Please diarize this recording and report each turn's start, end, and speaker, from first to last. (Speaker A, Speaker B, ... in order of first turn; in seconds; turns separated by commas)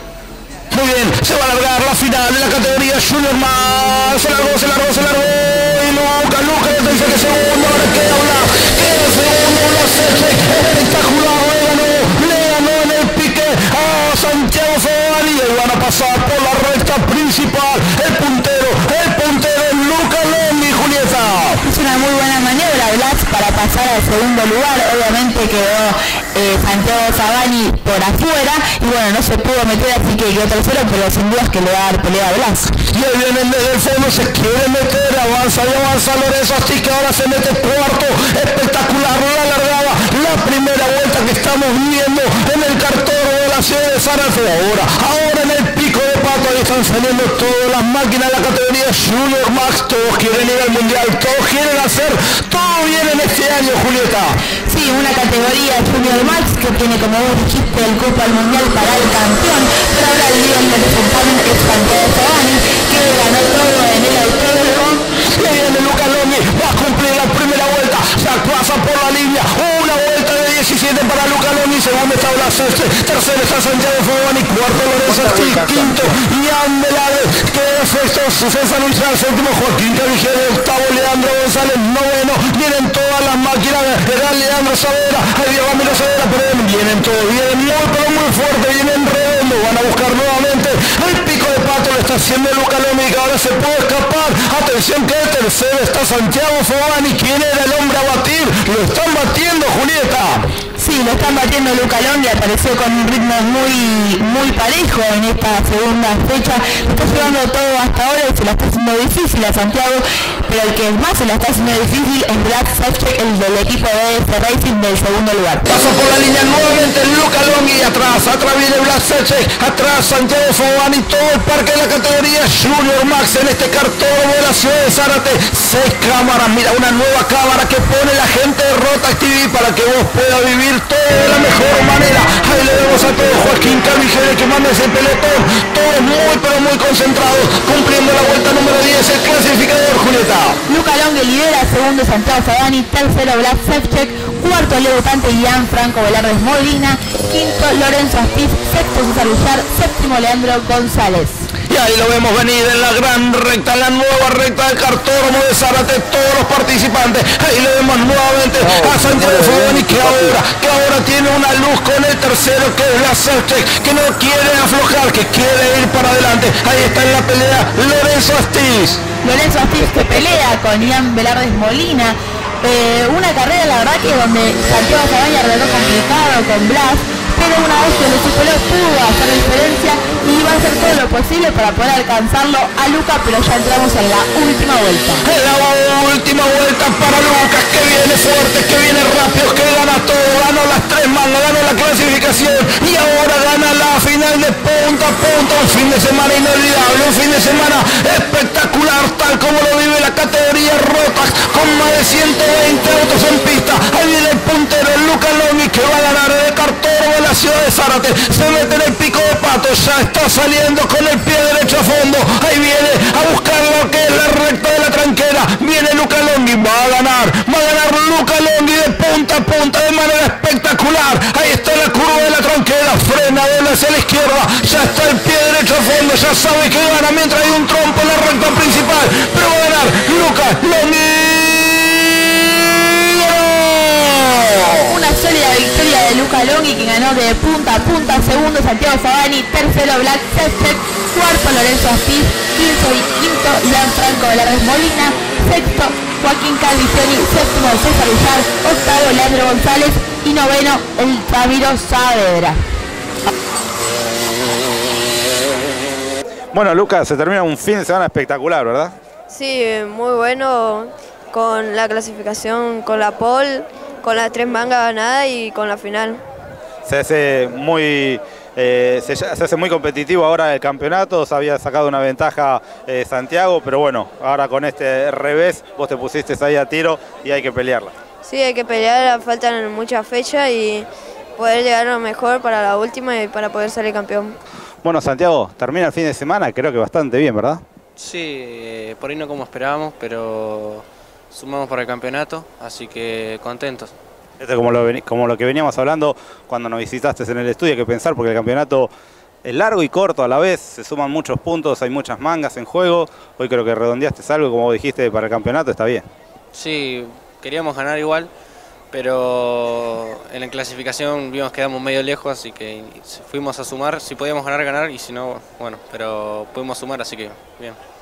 Speaker A: 0.7-21.6, Speaker B: 21.6-32.7, Speaker A: 32.9-54.4, Speaker B: 54.7-65.0, Speaker A: 65.3-100.5, Speaker B: 100.8-115.7, Speaker A: 115.7-140.6, Speaker B: 140.7-151.5, Speaker A: 151.7-169.0, Speaker B: 169.2-185.2, Speaker A: 185.2-231.8, Speaker A: 232.9-234.2, Speaker B: 234.9-252.6, Speaker C: 256.5-258.9, Speaker D: 259.3-266.2, Speaker C: 266.9-277.9, Speaker D: 278.2-284.4, Speaker C: 284.8-287.6, Speaker E: 288.0-293.9, Speaker C: 294.4-298.9, Speaker C: 299.4-306.0, Speaker E: 306.5-308.3, Speaker E: 308.9-317.8